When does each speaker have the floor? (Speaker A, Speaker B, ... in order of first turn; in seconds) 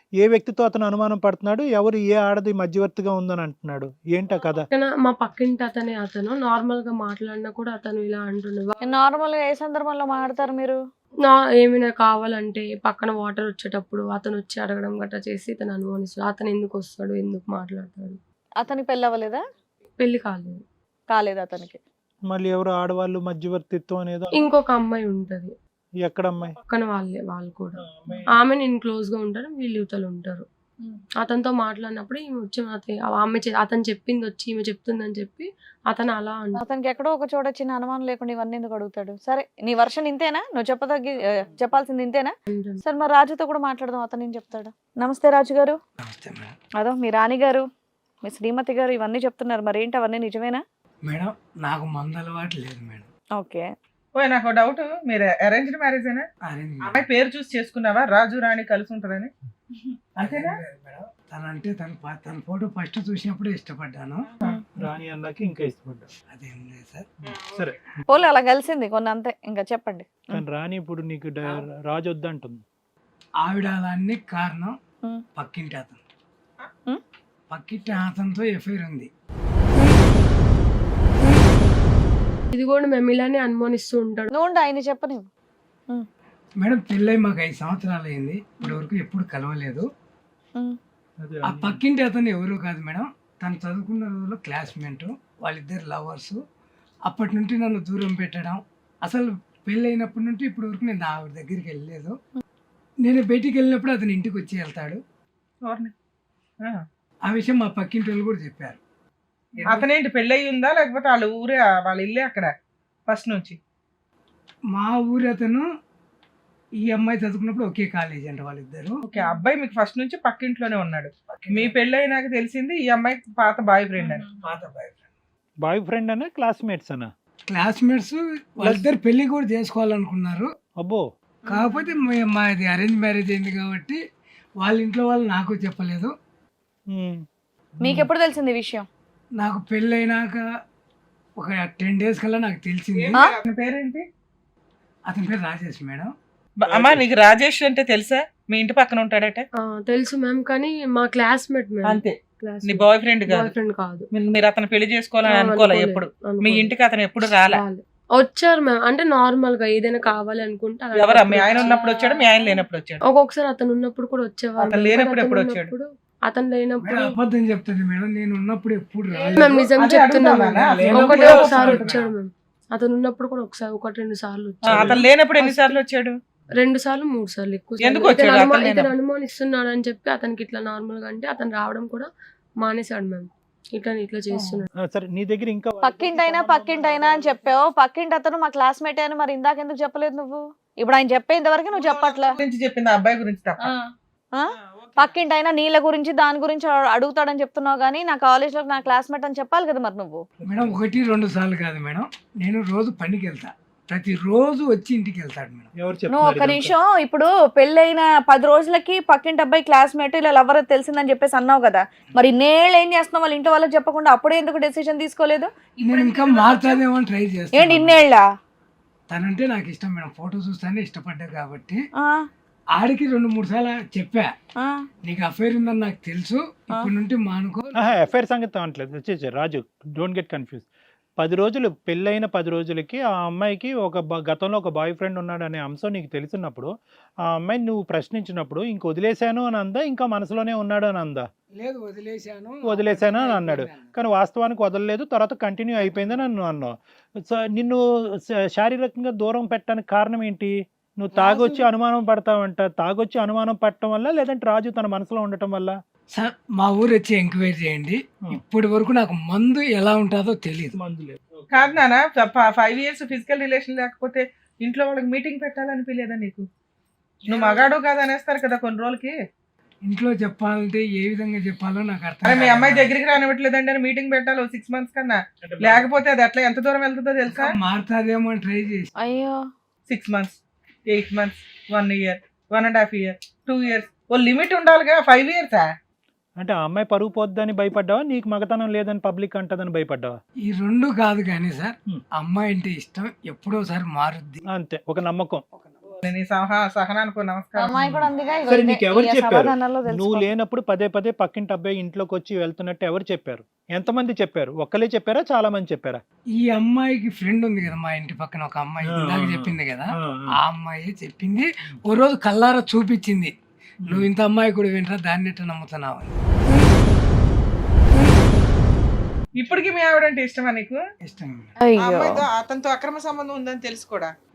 Speaker A: 0.2-4.7, 22.3-24.4, 26.0-26.6, 27.8-28.3, 64.8-66.1, 67.2-68.0, 70.3-72.6, 91.2-91.8, 125.6-127.1, 128.6-128.9, 130.8-131.0, 136.9-137.2, 146.7-147.0, 184.8-187.5, 200.5-200.8, 205.8-206.7, 227.7-230.7, 231.2-236.7, 237.3-241.2, 242.7-255.8, 260.7-261.7, 267.3-267.6, 275.4-275.9, 286.4-290.1, 294.5-295.4, 298.5-306.0, 308.9-310.3
Speaker B: 4.7-8.8, 11.2-18.2, 20.0-20.6, 24.3-25.5, 26.7-30.4, 31.2-36.6, 42.5-42.8, 82.5-84.3, 149.6-154.1, 155.2-156.7, 157.5-161.8, 163.0-167.2, 169.3-175.8, 176.5-182.1, 182.6-184.7
Speaker C: 8.8-10.8, 18.6-19.4, 21.1-21.8, 36.5-45.8, 46.8-47.6, 48.2-50.6, 53.3-53.7, 68.1-70.4, 84.3-85.3, 137.8-138.9, 161.5-162.2, 185.8-192.4, 194.3-200.2, 206.1-215.5, 217.5-218.2, 222.0-222.3, 224.6-224.8, 251.2-251.6, 279.0-279.4, 297.6-300.3, 321.6-322.2
Speaker D: 46.0-46.5, 51.0-53.1, 56.4-57.1, 60.2-64.3, 66.3-67.1, 73.4-74.7, 75.3-76.0, 77.5-79.1, 86.6-89.8, 91.4-96.4, 97.0-102.2, 103.0-105.0, 107.2-108.8, 114.7-115.7, 116.8-119.0, 121.3-121.7, 124.0-125.0, 127.5-130.5, 131.5-134.0, 134.6-136.1, 139.4-140.4, 141.4-143.2, 145.1-146.1, 166.8-169.7, 170.5-172.1, 200.4-205.7, 215.8-218.0, 219.1-221.8, 222.7-224.3, 225.0-227.9, 241.6-243.9, 256.1-260.8, 269.8-272.9, 277.3-278.9, 290.4-294.4, 306.4-313.3, 313.9-316.2, 321.0-321.5
Speaker E: 54.2-56.2, 56.8-59.3, 60.1-60.6, 105.7-105.9, 109.7-112.5, 113.1-113.6, 119.1-124.3, 143.0-144.0, 146.6-149.5, 151.8-152.1, 152.7-153.5, 154.1-157.6, 160.9-163.0, 164.6-165.7, 169.2-172.0, 174.6-176.2, 177.8-178.9, 191.7-193.7, 194.8-195.2, 261.5-266.4, 267.3-269.1, 272.2-277.6, 279.9-285.7, 296.0-297.8, 319.4-320.8, 321.8-324.1